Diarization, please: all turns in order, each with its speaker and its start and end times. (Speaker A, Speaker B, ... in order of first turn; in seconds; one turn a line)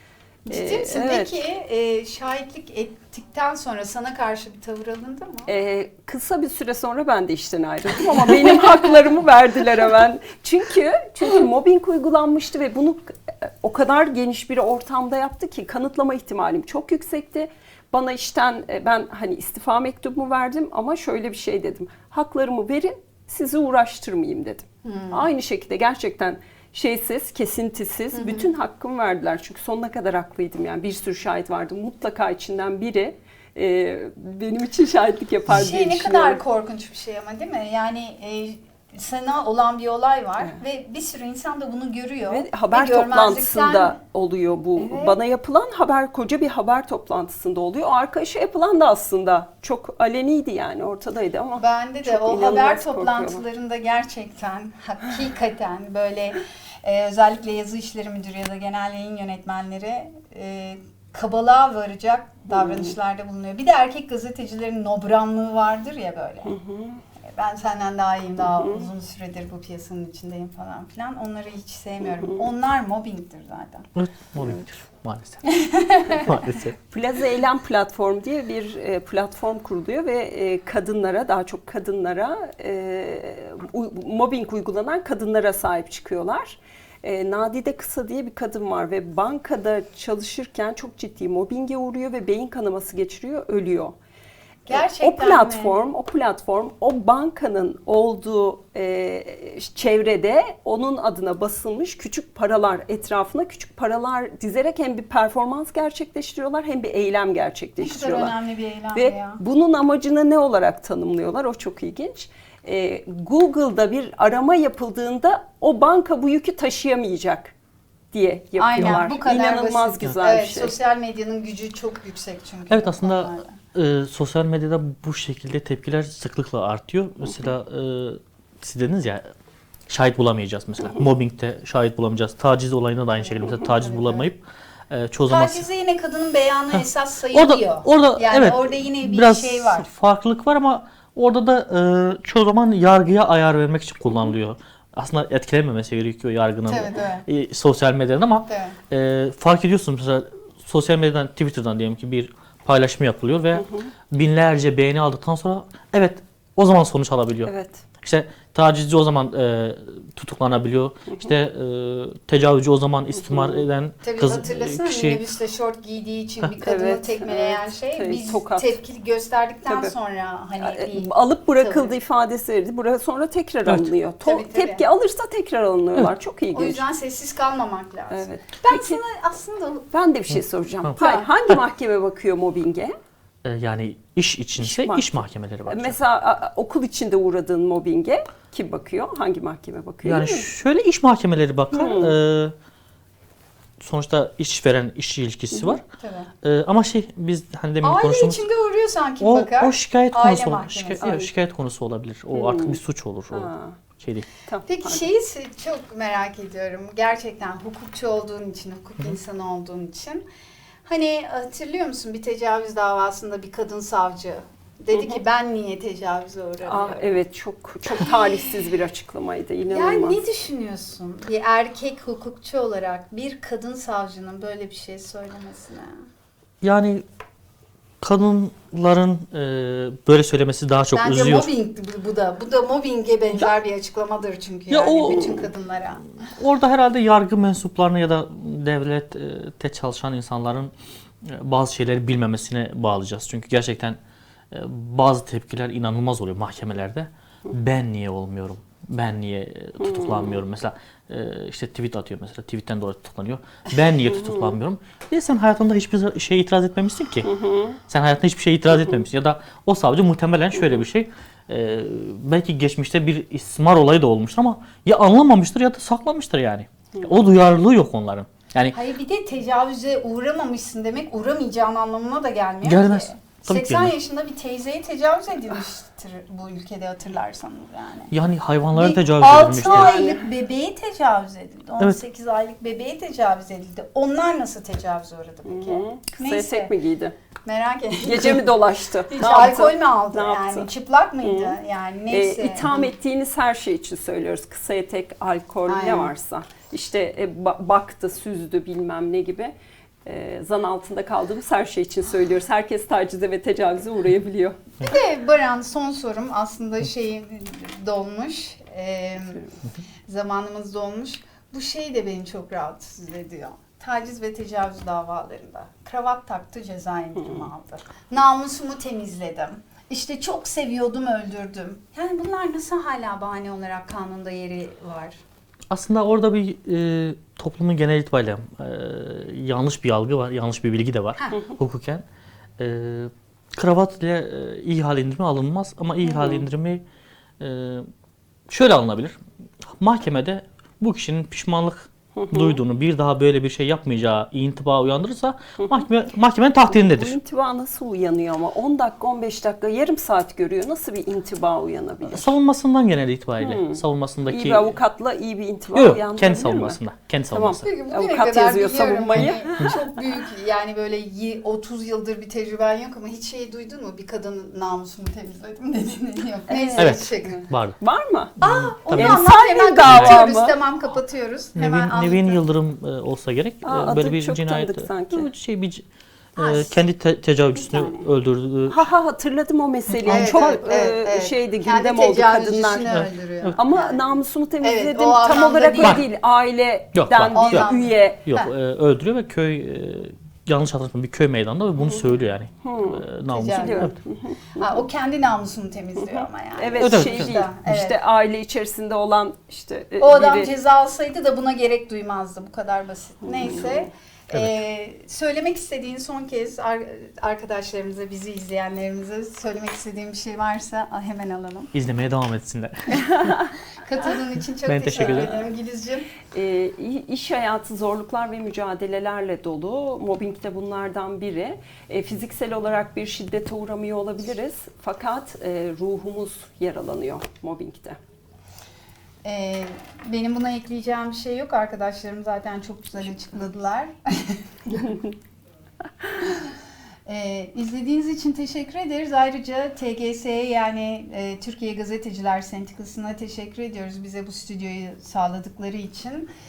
Speaker A: 0.5-5.5
Speaker B: 0.5-1.4
Speaker B: 5.5-36.4
Speaker A: 24.8-25.3
Speaker A: 28.1-28.5
Speaker A: 35.5-44.0
Speaker B: 42.3-53.4
Speaker A: 44.8-45.2
Speaker A: 51.5-66.5
Speaker B: 62.5-63.0
Speaker B: 66.4-67.0
Speaker A: 67.3-73.9
Speaker B: 68.4-68.9
Speaker B: 72.0-72.5
Speaker C: 74.0-75.5
Speaker B: 74.4-74.7
Speaker A: 75.5-76.3
Speaker C: 76.1-76.8
Speaker B: 76.8-94.0
Speaker A: 94.7-95.8
Speaker B: 94.7-108.3
Speaker A: 107.8-109.4
Speaker B: 108.9-117.5
Speaker B: 118.1-120.8
Speaker A: 118.6-123.5
Speaker C: 122.7-129.3
Speaker C: 129.9-135.7
Speaker A: 133.2-134.3
Speaker A: 135.3-139.9
Speaker C: 137.3-165.2
Speaker A: 146.7-147.2
Speaker A: 148.5-148.8
Speaker B: 153.5-153.9
Speaker B: 157.4-157.8
Speaker B: 163.1-163.7
Speaker A: 164.0-171.9
Speaker B: 166.6-168.8
Speaker B: 169.7-169.9
Speaker B: 170.6-176.8
Speaker A: 174.2-174.8
Speaker A: 176.5-179.9
Speaker B: 178.1-179.0
Speaker B: 179.9-182.9
Speaker A: 181.0-181.3
Speaker C: 183.4-186.0
Speaker B: 184.6-190.5
Speaker C: 190.0-192.5
Speaker B: 191.7-192.2
Speaker C: 193.8-195.8
Speaker B: 195.5-195.8
Speaker A: 196.0-196.3
Speaker C: 196.4-198.5
Speaker A: 197.8-201.2
Speaker C: 199.2-204.3
Speaker B: 202.3-202.8
Speaker B: 203.3-203.8
Speaker B: 204.4-205.1
Speaker A: 204.7-210.2
Speaker A: 210.8-217.2
Speaker B: 214.9-215.2
Speaker B: 216.6-220.2
Speaker A: 218.0-218.6
Speaker A: 219.7-225.9
Speaker C: 226.6-227.0
Speaker C: 228.0-231.5
Speaker A: 230.9-236.1
Speaker C: 234.7-235.5
Speaker C: 236.3-240.7
Speaker C: 241.2-244.0
Speaker C: 244.5-257.3
Speaker B: 249.8-250.4
Speaker B: 254.1-254.6
Speaker B: 257.2-257.8
Speaker C: 257.9-268.8
Speaker A: 268.7-278.1
Speaker C: 272.6-273.9
Speaker C: 278.1-280.1
Speaker A: 278.7-286.7
Speaker B: 279.6-280.2
Speaker B: 285.4-287.1
Speaker A: 287.4-292.9
Speaker B: 288.0-290.7
Speaker B: 291.2-291.6
Speaker B: 292.1-299.5
Speaker A: 295.7-296.1
Speaker B: 300.0-304.8
Speaker A: 304.8-309.4
Speaker A: 310.1-325.2
Speaker B: 317.1-317.5
Speaker C: 325.7-332.0
Speaker A: 331.2-331.4
Speaker C: 332.6-336.8
Speaker B: 336.0-336.4
Speaker C: 337.4-337.9
Speaker C: 338.5-347.1
Speaker B: 342.1-342.6
Speaker B: 345.6-345.9
Speaker B: 346.7-352.4
Speaker C: 352.1-354.8
Speaker B: 353.4-356.8
Speaker C: 355.7-357.6
Speaker B: 357.3-359.8
Speaker A: 357.6-367.5
Speaker C: 359.1-359.7
Speaker B: 366.5-368.4
Speaker C: 366.8-367.7
Speaker A: 368.4-372.4
Speaker C: 368.4-369.2
Speaker B: 368.9-370.6
Speaker C: 369.8-370.2
Speaker C: 371.5-375.8
Speaker B: 373.6-375.3
Speaker C: 376.4-378.8
Speaker A: 376.4-376.8
Speaker A: 377.5-378.1
Speaker B: 378.7-383.0
Speaker C: 379.9-380.5
Speaker A: 380.0-384.0
Speaker C: 382.9-383.6
Speaker B: 383.6-388.3
Speaker A: 384.6-386.0
Speaker C: 385.8-386.0
Speaker C: 386.9-393.9
Speaker A: 387.3-388.5
Speaker B: 392.6-394.9
Speaker A: 393.3-393.9
Speaker A: 394.6-398.0
Speaker B: 396.0-400.5
Speaker C: 396.8-397.8
Speaker A: 400.0-411.7
Speaker B: 403.3-403.9
Speaker C: 404.3-404.6
Speaker C: 411.7-413.3
Speaker A: 413.8-416.1
Speaker C: 414.6-415.4
Speaker B: 416.3-428.0
Speaker A: 429.2-434.4
Speaker B: 434.7-435.1
Speaker A: 437.1-446.3